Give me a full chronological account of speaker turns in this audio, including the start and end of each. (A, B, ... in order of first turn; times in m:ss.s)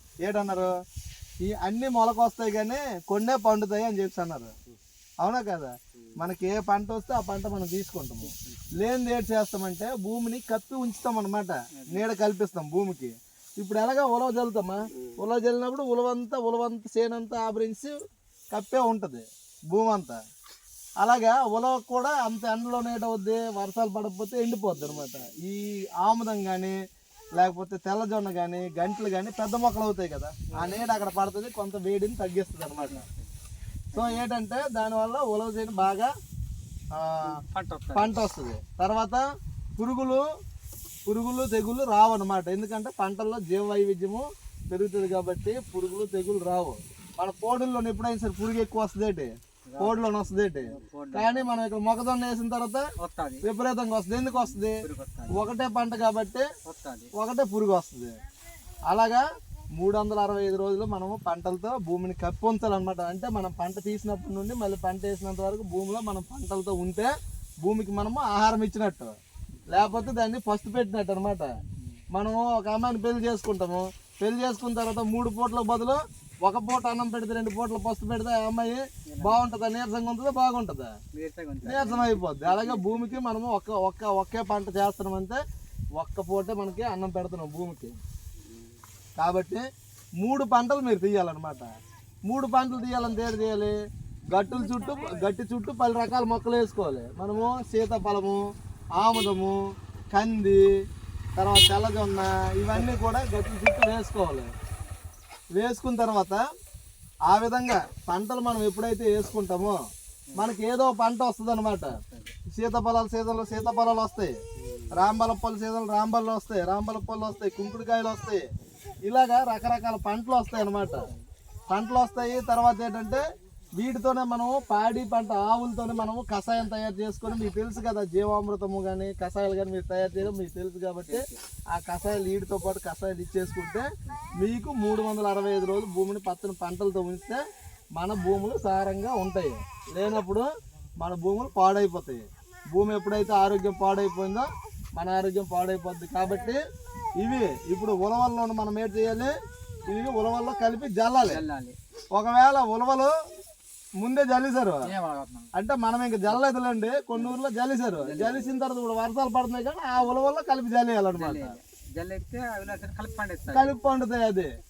0:00.2-0:00.7 A
0:01.4-0:04.5 A
0:05.2-0:17.9 A
0:08.2-0:08.7 B
0:11.8-0:12.1 B
0:18.5-0:20.2 A
0:21.0-0:26.8 A
0:27.4-0:33.0 A
0:30.5-0:31.0 B
0:32.7-0:33.3 B
0:33.9-0:34.3 B
0:33.9-0:36.1 A
0:36.9-0:37.3 A
0:37.2-0:38.2 B
0:37.9-0:39.2 A
0:39.8-0:40.2 A
0:41.0-0:52.8 A
0:49.7-0:51.5 B
0:53.0-0:53.5 B
0:53.4-0:56.5 A
0:54.2-0:55.6 B
0:56.6-0:57.1 B
0:57.2-0:58.1 A
0:58.9-0:59.2 A
0:59.8-1:07.1 A
1:07.6-1:09.1 A
1:09.5-1:10.1 B
1:09.7-1:11.5 A
1:12.1-1:20.9 A
1:19.1-1:19.6 B
1:21.1-1:23.2 B
1:21.6-1:25.4 A
1:26.0-1:28.0 A
1:29.2-1:29.6 A
1:30.2-1:31.7 A
1:32.3-1:33.7 A
1:34.3-1:38.4 A
1:39.0-1:39.6 A
1:40.1-1:40.6 A
1:41.4-1:44.5 A
1:45.5-1:46.4 A
1:47.3-1:49.8 A
1:50.3-1:50.5 B
1:50.4-1:52.0 A
1:51.8-1:52.3 B
1:52.5-1:54.4 A
1:54.9-1:58.4 A
1:59.0-2:01.1 A
2:01.7-2:03.2 A
2:03.8-2:13.8 A
2:11.1-2:11.4 B
2:14.1-2:14.3 B
2:14.4-2:17.4 A
2:18.0-2:20.5 A
2:21.0-2:26.6 A
2:27.2-2:29.4 A
2:29.9-2:31.4 A
2:31.2-2:31.8 B
2:32.1-2:33.1 A
2:34.0-2:34.9 A
2:34.8-2:35.5 B
2:35.5-2:41.6 A
2:37.1-2:37.4 B
2:37.9-2:38.6 B
2:41.1-2:43.8 B
2:43.5-2:44.5 A